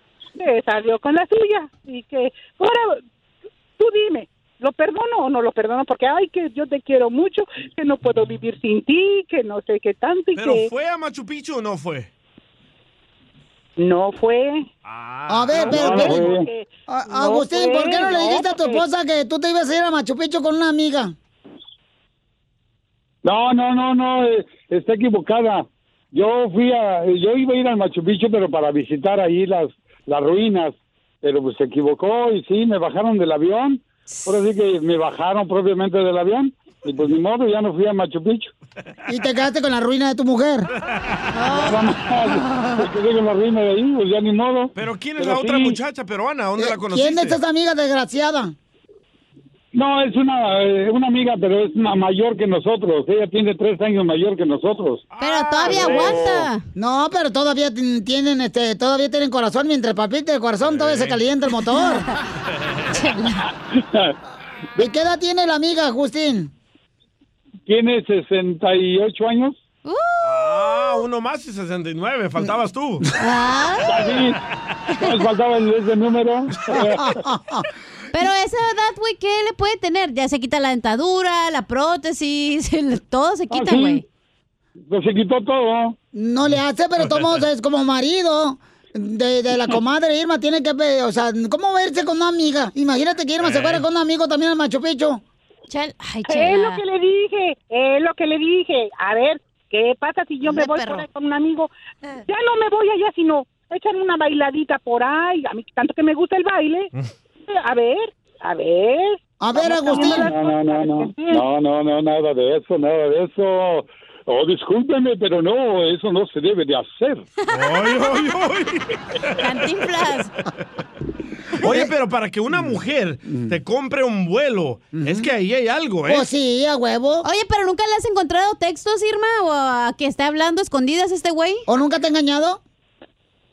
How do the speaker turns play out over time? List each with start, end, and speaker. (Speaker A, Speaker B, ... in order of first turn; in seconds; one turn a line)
Speaker A: 0.4-3.0
Speaker A: 3.8-10.7
Speaker B: 10.3-12.1
Speaker A: 13.8-14.7
Speaker B: 14.8-16.1
Speaker C: 15.3-16.3
Speaker A: 15.6-18.8
Speaker D: 15.8-16.5
Speaker C: 16.9-21.1
Speaker D: 23.2-38.5
Speaker C: 39.1-40.7
Speaker E: 41.3-41.8
Speaker D: 41.6-45.8
Speaker E: 42.3-42.7
Speaker B: 44.7-47.4
Speaker C: 46.6-48.5
Speaker D: 49.7-55.0
Speaker B: 55.1-56.5
Speaker E: 55.2-56.6
Speaker C: 56.8-62.1
Speaker B: 60.6-61.2
Speaker E: 62.9-63.4
Speaker D: 63.7-64.1
Speaker C: 64.8-66.5
Speaker D: 67.7-69.5
Speaker E: 69.8-71.0
Speaker B: 70.2-73.0
Speaker E: 73.2-74.2
Speaker D: 73.8-74.4
Speaker D: 75.0-77.0
Speaker C: 76.7-77.6
Speaker E: 78.1-84.0
Speaker D: 83.5-84.0
Speaker D: 84.9-86.0
Speaker C: 86.1-95.2
Speaker B: 93.4-93.8
Speaker E: 95.7-96.8
Speaker A: 96.3-101.7
Speaker E: 100.4-101.0
Speaker A: 102.3-106.9
Speaker A: 107.5-111.4
Speaker C: 109.4-110.3
Speaker D: 109.9-117.2
Speaker B: 117.5-119.4
Speaker E: 119.4-120.3
Speaker B: 121.6-126.3
Speaker C: 121.6-121.9
Speaker C: 123.2-123.6
Speaker C: 124.9-125.3
Speaker C: 126.0-127.2
Speaker E: 127.2-131.6
Speaker C: 131.7-132.6